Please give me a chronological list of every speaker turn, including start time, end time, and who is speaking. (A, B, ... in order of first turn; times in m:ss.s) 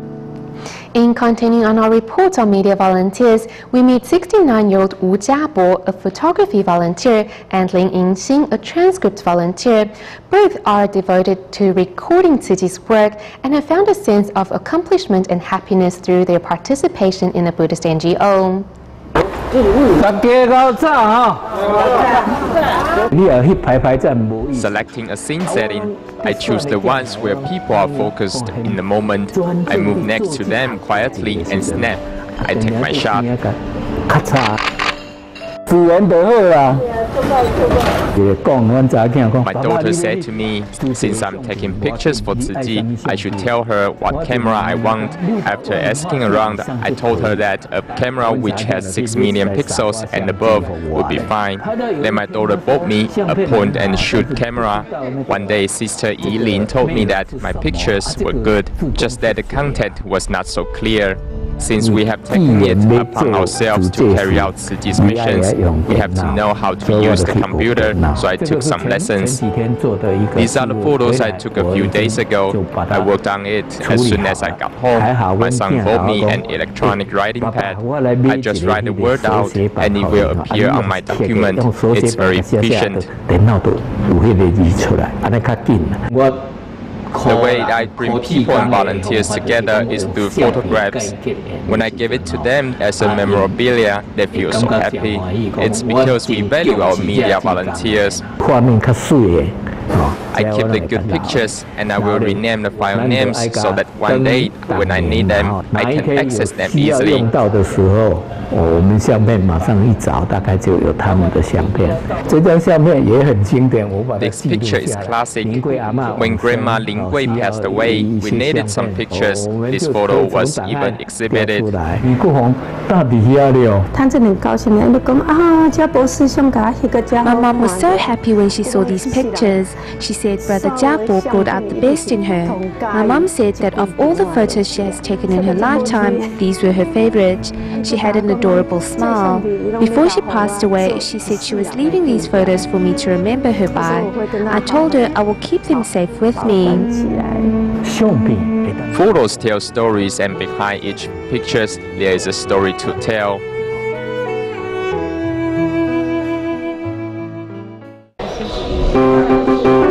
0:00.9-0:18.7 A
0:19.9-0:21.4 B
0:23.1-0:24.8 B
0:24.5-0:33.3 C
0:25.4-0:34.6 B
0:35.7-0:36.8 B
0:38.1-0:43.5 B
0:39.4-1:09.4 C
0:44.1-0:47.4 B
0:48.1-0:55.6 B
0:56.2-0:59.8 B
1:01.8-1:13.1 B
1:10.3-1:23.0 C
1:13.8-1:26.5 B
1:27.1-1:33.6 B
1:27.2-1:31.1 C
1:31.7-1:38.2 C
1:34.3-2:03.9 B
1:40.3-1:47.3 C
1:54.2-2:01.7 C
2:03.9-2:05.8 D
2:06.6-2:08.0 D
2:07.2-2:26.9 E
2:08.8-2:09.5 D
2:10.5-2:14.8 D
2:15.3-2:16.3 D
2:17.8-2:22.6 D
2:23.7-2:25.2 D
2:26.4-2:27.5 D
2:27.8-2:29.0 B
2:28.9-2:33.4 C